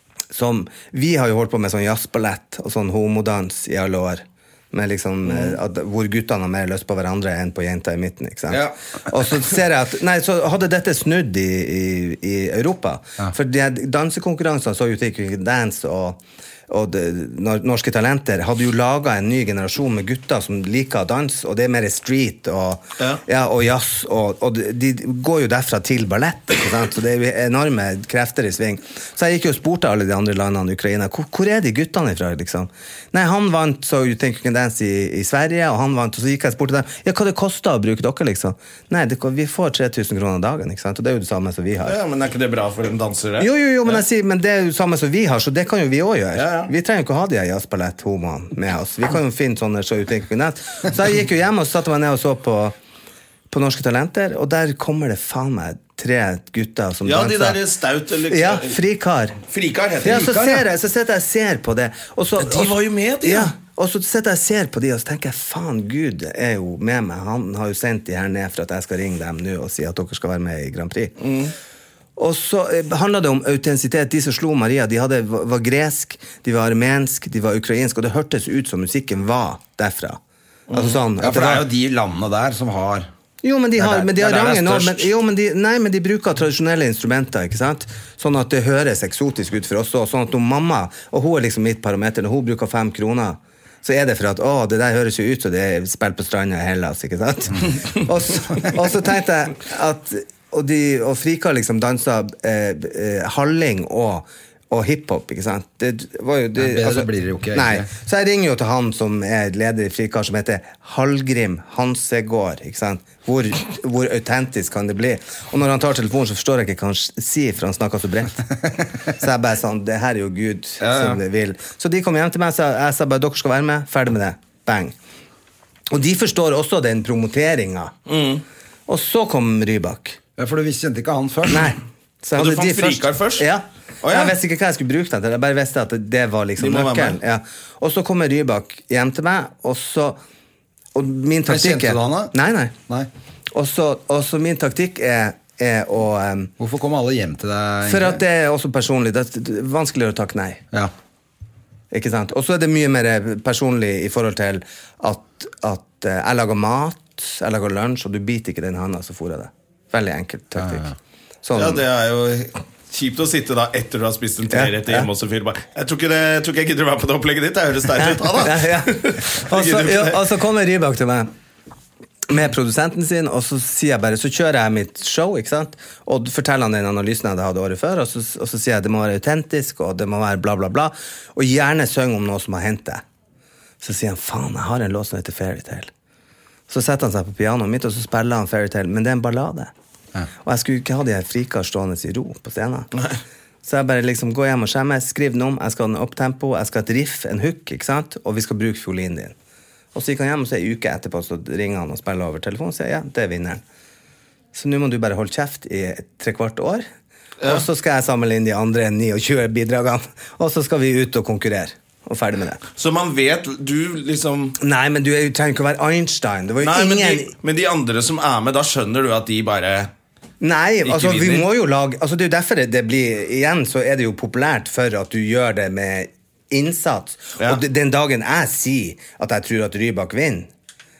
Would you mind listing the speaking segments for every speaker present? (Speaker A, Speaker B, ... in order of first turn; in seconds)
Speaker A: 0.3-42.0, 43.4-52.8, 53.5-57.6, 58.3-59.4, 60.0-71.2, 72.2-80.2, 80.7-81.7, 83.4-124.9, 125.9-127.9, 128.9-130.2, 131.5-140.2, 140.9-142.7, 143.5-146.5, 147.8-150.6, 151.9-160.9, 161.4-161.8, 164.5-165.1, 168.0-171.3, 172.3-183.0, 183.8-185.9, 186.7-189.7, 190.4-192.9, 193.6-199.3, 199.9-203.6, 204.5-206.8, 207.4-212.6, 214.6-217.3, 220.4-230.5
Speaker B: 41.8-44.0, 46.3-46.7, 57.0-58.8, 59.5-60.4, 62.4-63.5, 71.2-71.5, 80.7-81.0, 128.1-128.4, 132.3-133.5, 134.0-134.3, 136.6-137.2, 161.5-170.2, 212.8-214.6, 216.6-219.9, 220.8-221.5
Speaker C: 81.2-83.1, 83.8-85.1, 106.6-107.9, 130.4-131.7, 141.4-142.3, 146.6-148.2, 160.6-160.9